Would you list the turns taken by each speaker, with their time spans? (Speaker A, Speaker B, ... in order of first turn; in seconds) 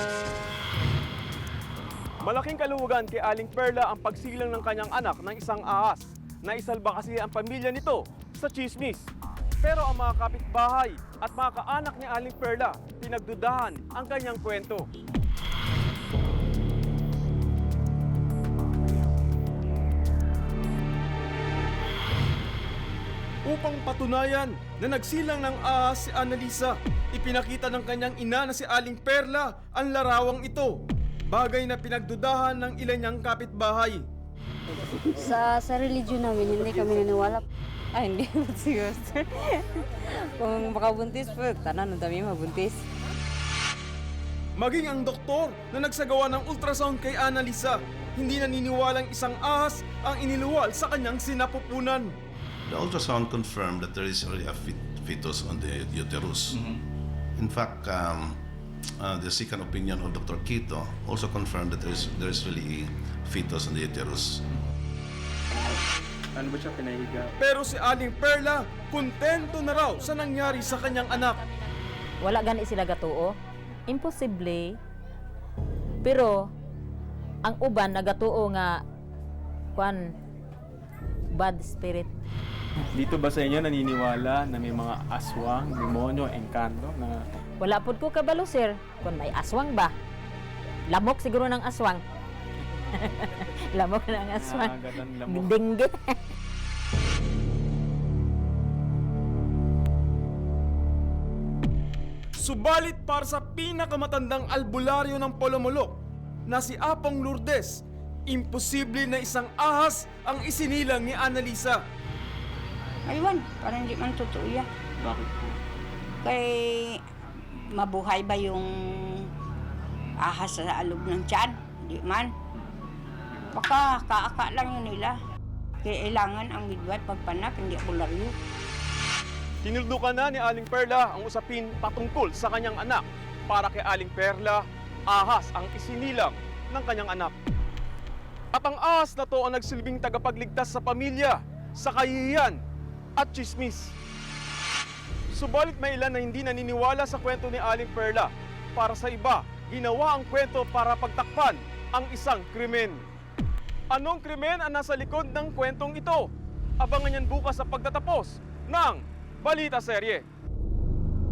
Speaker A: 2.2-9.1, 9.6-14.8, 23.4-34.0, 44.5-52.1, 67.4-71.4, 102.4-111.8, 129.6-137.3, 138.5-142.6, 143.2-143.9, 145.3-153.0, 153.9-156.3, 156.8-160.2
Speaker B: 35.1-37.4
Speaker C: 37.9-39.8, 40.3-42.8
Speaker D: 52.7-56.8, 57.4-58.4, 59.0-64.4
Speaker E: 66.3-67.3, 83.0-87.2, 94.3-95.5
Speaker F: 72.2-73.3, 73.9-74.8, 76.0-76.5, 77.4-78.8, 79.7-80.1, 81.3-82.1, 87.6-89.9, 90.9-92.0, 92.9-96.2
Speaker G: 113.1-114.6, 116.2-117.0, 117.7-119.3, 120.2-122.3, 123.5-125.2, 125.8-128.3